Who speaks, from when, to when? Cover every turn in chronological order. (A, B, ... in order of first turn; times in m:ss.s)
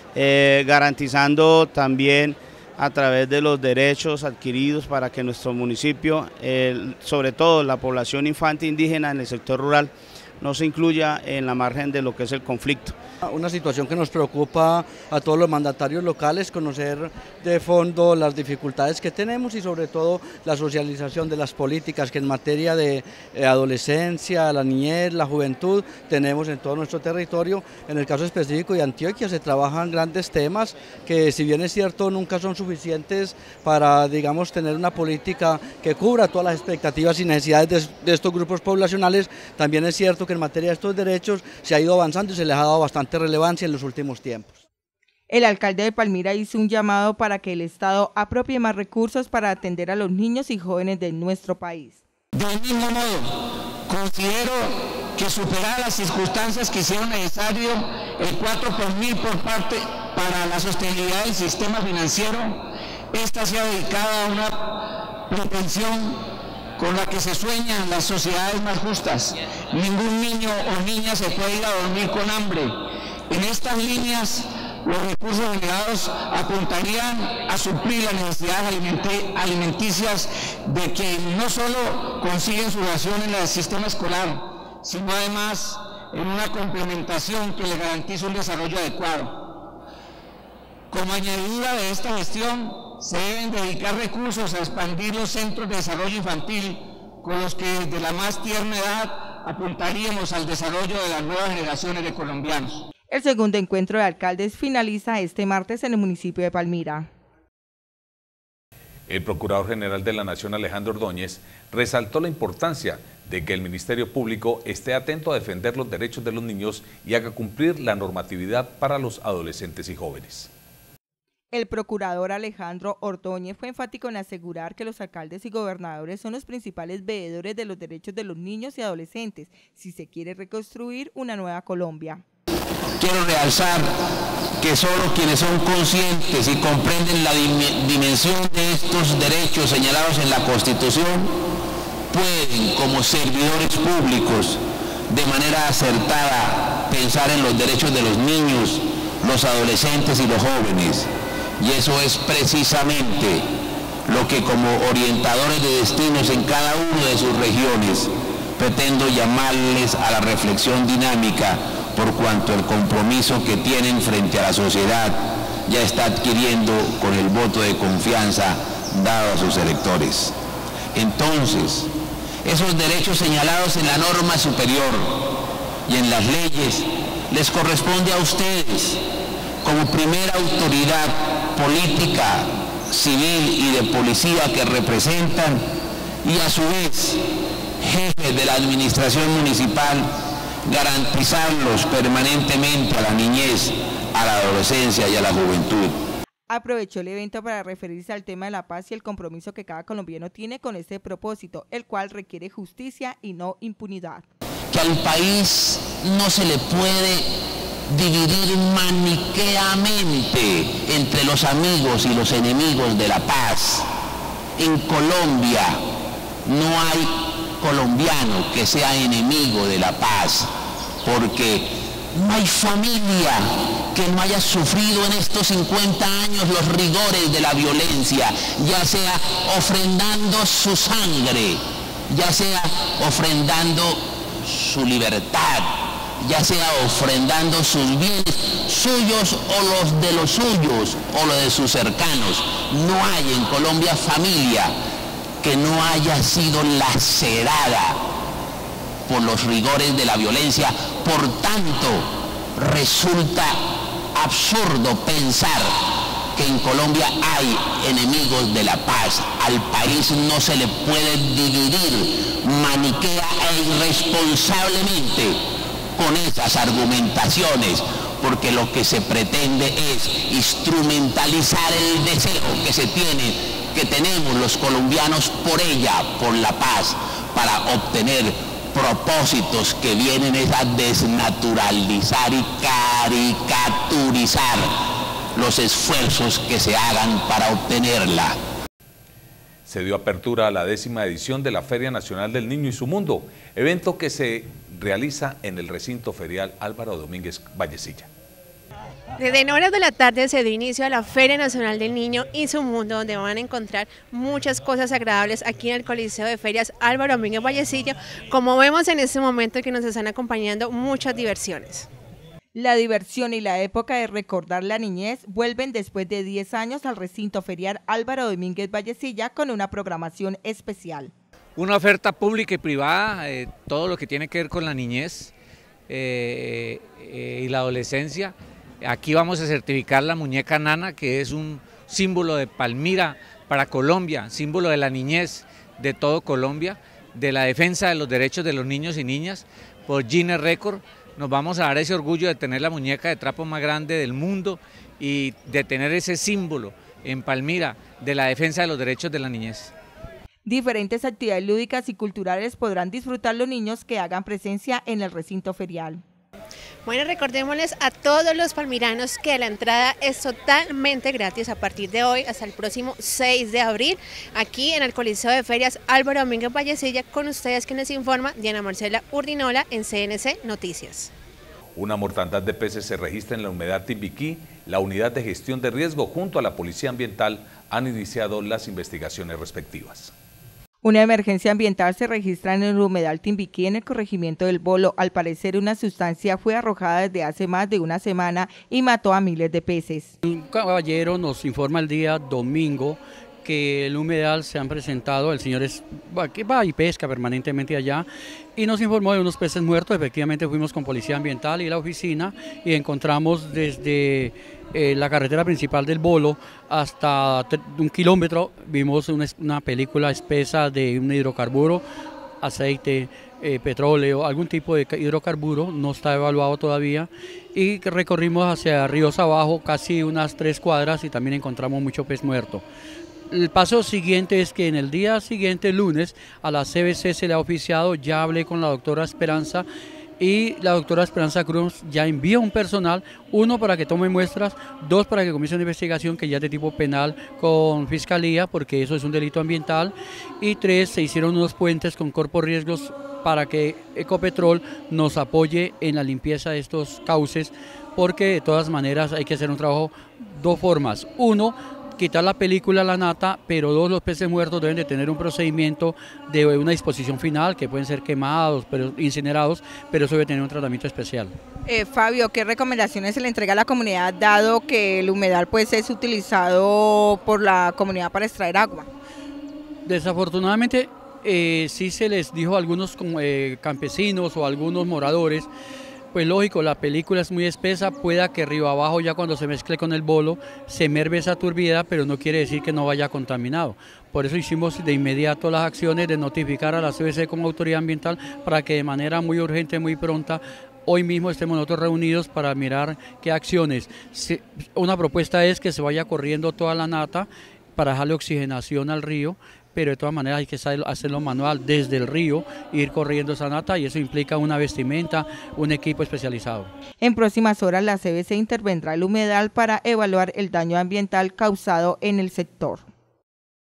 0:00.2-0:13.0 A
0:13.2-0:44.6 B
0:45.3-0:52.0 C
0:52.3-1:29.6 D
1:30.9-1:42.8 D
1:43.1-1:47.1 C
1:49.1-2:00.5 E
2:01.5-2:12.2 C
2:13.0-2:13.9 F
2:14.6-2:21.3 F
2:22.1-2:33.5 F
2:34.1-2:50.4 F
2:50.9-2:51.9 F
2:52.4-2:55.1 F
2:55.9-2:59.0 F
2:59.6-3:05.6 F
3:06.2-3:07.2 F
3:07.8-3:10.1 F
3:10.6-3:16.0 F
3:16.5-3:24.3 C
3:24.7-3:27.3 F
3:27.9-3:33.9 F
3:34.6-3:35.8 F
3:36.5-3:40.5 F
3:41.0-4:04.8 F
4:05.4-4:08.0 F
4:09.1-4:13.6 F
4:14.2-4:15.7 F
4:16.4-4:25.4 F
4:26.0-4:44.7 F
4:45.4-4:48.4 F
4:49.7-4:58.1 E
4:59.2-5:11.9 G
5:12.6-5:21.1 C
5:21.6-5:25.3 H
5:25.9-5:49.7 H
5:50.4-5:56.0 C
5:56.9-6:11.1 G
6:11.8-6:20.1 E
6:20.8-6:30.1 C
6:30.2-6:51.8 I
6:52.4-7:02.6 I
7:03.3-7:09.7 I
7:10.2-7:41.3 I
7:41.7-7:48.9 C
7:49.9-7:55.5 I
7:56.1-8:26.7 I
8:27.0-8:32.8 C